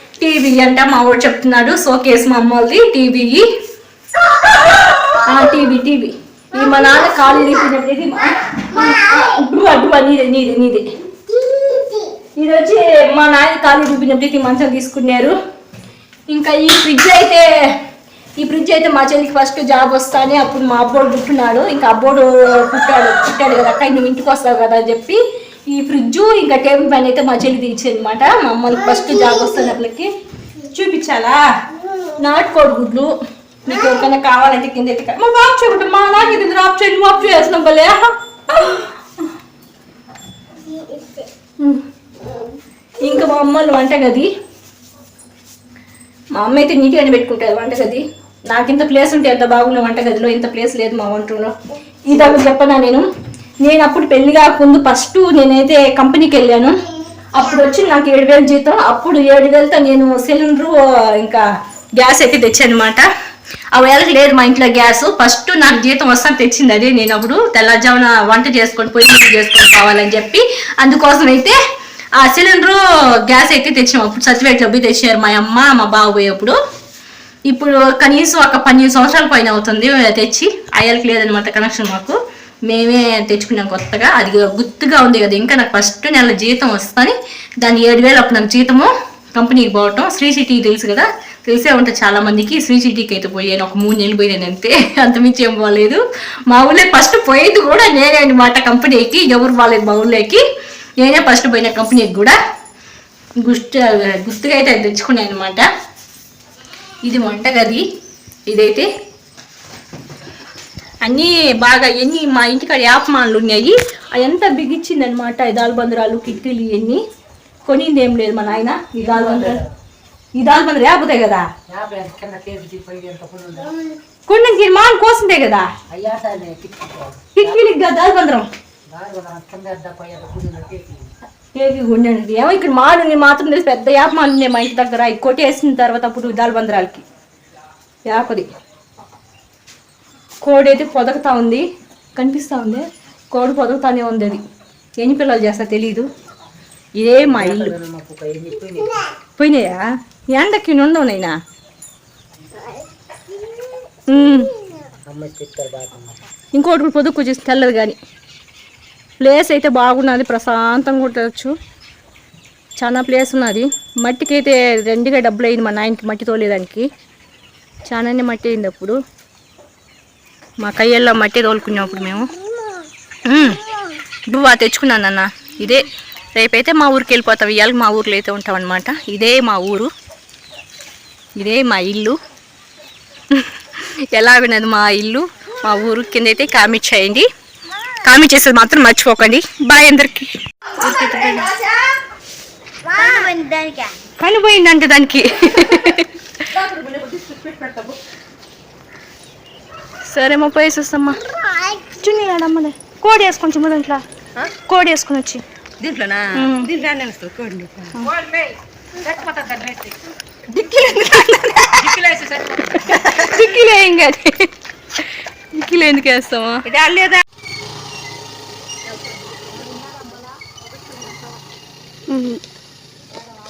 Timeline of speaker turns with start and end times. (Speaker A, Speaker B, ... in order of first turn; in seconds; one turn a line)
Speaker A: 0.2-3.5
Speaker A: 5.1-15.4
Speaker A: 16.3-17.5
Speaker A: 18.4-30.1
Speaker A: 30.7-31.4
Speaker A: 32.1-33.1
Speaker A: 33.7-39.3
Speaker A: 41.6-41.9
Speaker A: 43.0-44.3
Speaker A: 46.4-51.5
Speaker A: 52.1-53.1
Speaker A: 53.6-56.8
Speaker A: 57.3-61.5
Speaker A: 62.0-63.1
Speaker A: 63.7-71.6
Speaker A: 72.2-76.6
Speaker A: 77.5-100.4
Speaker A: 101.0-102.4
Speaker A: 103.4-105.7
Speaker A: 107.0-107.8
Speaker A: 108.5-108.9
Speaker A: 111.0-117.0
Speaker A: 117.7-119.6
Speaker B: 119.0-119.7
Speaker A: 120.4-121.5
Speaker B: 121.7-123.8
Speaker A: 124.3-125.7
Speaker B: 125.9-127.7
Speaker A: 127.4-128.5
Speaker B: 128.9-131.1
Speaker A: 131.6-137.0
Speaker A: 138.1-138.5
Speaker A: 140.4-141.7
Speaker A: 142.2-144.4
Speaker A: 145.0-146.1
Speaker A: 147.0-147.7
Speaker B: 147.2-149.0
Speaker A: 149.4-151.3
Speaker A: 154.1-154.6
Speaker B: 155.1-156.2
Speaker A: 156.5-158.0
Speaker A: 159.2-161.5
Speaker A: 162.8-166.9
Speaker A: 167.9-169.0
Speaker A: 170.6-172.3
Speaker A: 173.3-173.7
Speaker A: 174.3-179.9
Speaker A: 181.4-182.2
Speaker A: 183.3-187.3
Speaker A: 188.0-191.6
Speaker A: 194.1-196.6
Speaker C: 196.6-198.0
Speaker A: 200.1-201.2
Speaker A: 201.7-204.0
Speaker A: 204.5-205.4
Speaker C: 205.8-208.5
Speaker A: 206.3-206.7
Speaker A: 207.9-208.2
Speaker C: 209.0-209.9
Speaker A: 210.5-216.7
Speaker C: 212.0-212.6
Speaker C: 216.7-217.2
Speaker C: 222.1-222.4